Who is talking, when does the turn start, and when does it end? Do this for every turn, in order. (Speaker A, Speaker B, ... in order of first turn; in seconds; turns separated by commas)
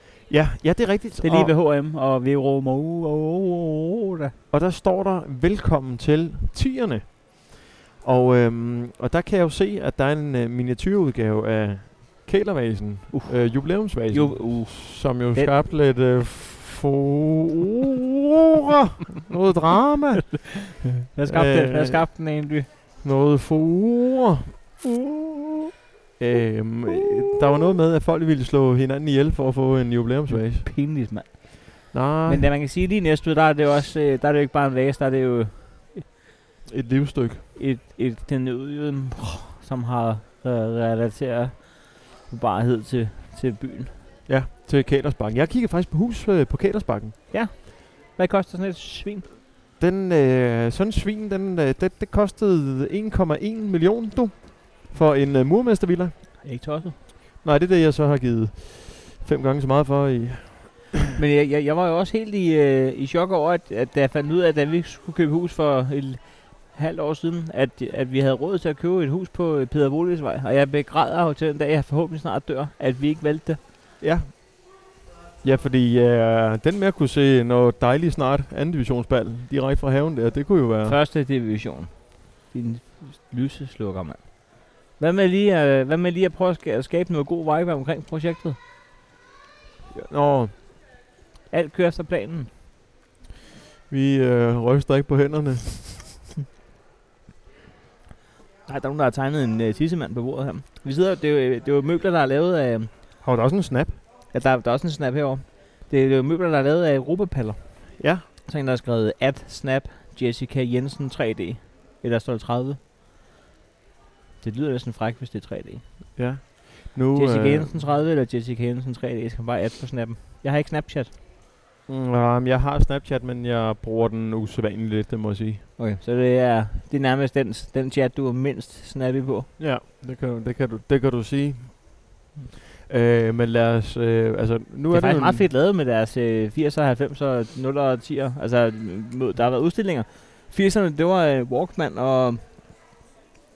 Speaker A: 0.3-1.5, Speaker B: 1.2-4.3, Speaker A: 4.5-22.0, Speaker B: 13.1-15.5, Speaker B: 21.1-22.7, Speaker A: 23.0-24.6, Speaker A: 26.2-30.7, Speaker B: 30.3-36.0, Speaker A: 31.9-32.5, Speaker A: 36.7-37.4, Speaker B: 37.5-44.0, Speaker A: 44.3-47.1, Speaker B: 47.3-49.2, Speaker A: 49.8-56.2, Speaker B: 56.4-56.9, Speaker A: 57.4-60.9, Speaker B: 61.1-73.6, Speaker A: 74.0-74.3, Speaker A: 75.4-81.0, Speaker B: 80.8-88.6, Speaker A: 89.9-90.5, Speaker B: 91.5-92.5, Speaker A: 93.9-96.1, Speaker B: 98.7-102.9, Speaker A: 103.2-104.0, Speaker B: 104.3-112.8, Speaker A: 108.0-108.2, Speaker B: 114.4-116.0, Speaker A: 116.2-117.7, Speaker B: 117.1-121.1, Speaker A: 121.9-125.6, Speaker B: 125.8-129.5, Speaker A: 129.6-132.0, Speaker A: 132.9-135.4, Speaker B: 134.9-142.4